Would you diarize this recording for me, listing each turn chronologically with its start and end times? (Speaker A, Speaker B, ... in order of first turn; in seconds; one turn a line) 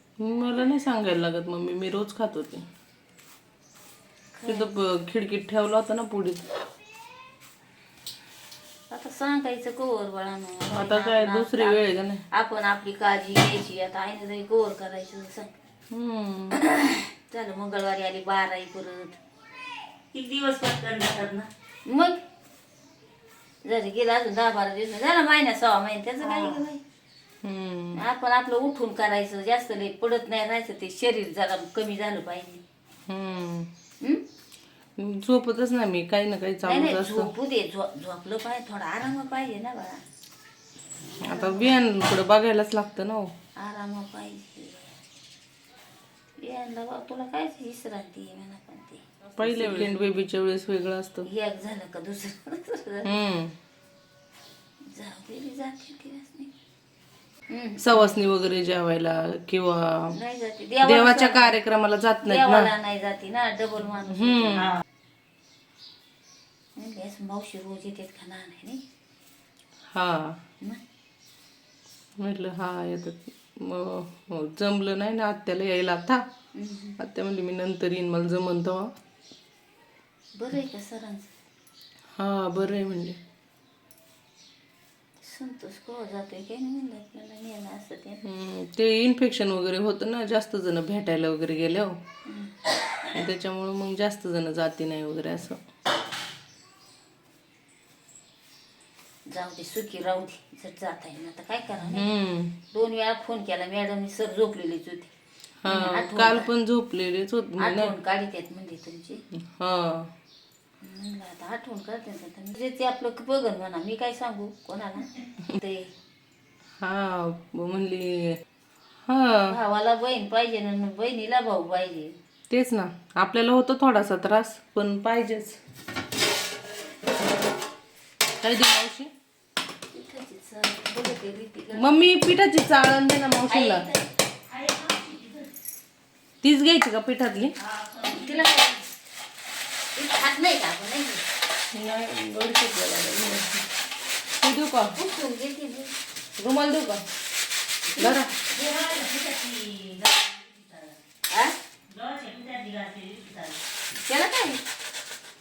Speaker A: 0.2-2.7
Speaker B: 4.3-4.7
Speaker A: 4.5-6.5
Speaker B: 8.9-15.5
Speaker A: 10.7-12.2
Speaker A: 15.9-16.6
Speaker B: 16.5-19.2
Speaker C: 20.1-21.5
Speaker B: 21.9-22.2
Speaker B: 23.6-26.8
Speaker C: 26.2-26.6
Speaker A: 27.4-28.0
Speaker B: 27.9-32.6
Speaker A: 33.1-33.7
Speaker A: 35.0-37.3
Speaker B: 36.6-40.0
Speaker A: 41.2-43.3
Speaker B: 41.3-41.6
Speaker B: 43.6-44.9
Speaker B: 46.4-49.9
Speaker A: 49.4-51.3
Speaker B: 51.2-53.1
Speaker A: 53.0-53.5
Speaker B: 54.9-56.5
Speaker B: 57.5-58.0
Speaker A: 57.8-60.1
Speaker B: 60.1-61.6
Speaker A: 60.8-62.7
Speaker B: 62.2-64.8
Speaker A: 64.1-64.8
Speaker B: 66.8-68.8
Speaker A: 69.9-70.4
Speaker A: 72.2-76.2
Speaker B: 76.5-77.0
Speaker A: 77.0-78.9
Speaker B: 80.3-81.3
Speaker A: 82.2-83.2
Speaker B: 85.2-88.2
Speaker A: 88.2-92.0
Speaker B: 92.2-92.5
Speaker A: 93.1-95.6
Speaker B: 99.2-102.1
Speaker A: 101.9-102.5
Speaker B: 102.7-105.1
Speaker A: 105.6-107.9
Speaker B: 105.7-106.5
Speaker B: 107.6-109.2
Speaker A: 109.3-110.1
Speaker B: 110.8-115.9
Speaker A: 116.8-118.4
Speaker A: 119.0-119.5
Speaker B: 119.5-122.2
Speaker A: 122.5-125.6
Speaker A: 128.4-129.1
Speaker B: 129.9-132.0
Speaker A: 131.8-133.8
Speaker B: 133.4-134.0
Speaker C: 134.5-135.5
Speaker A: 136.4-137.5
Speaker C: 137.6-138.6
Speaker B: 138.1-138.8
Speaker B: 139.9-141.2
Speaker A: 141.7-143.7
Speaker A: 144.4-144.9
Speaker B: 144.9-145.9
Speaker A: 146.4-147.0
Speaker B: 147.9-148.3
Speaker A: 148.0-148.3
Speaker C: 148.4-151.0
Speaker B: 151.3-151.6
Speaker C: 151.9-153.6
Speaker B: 153.9-154.6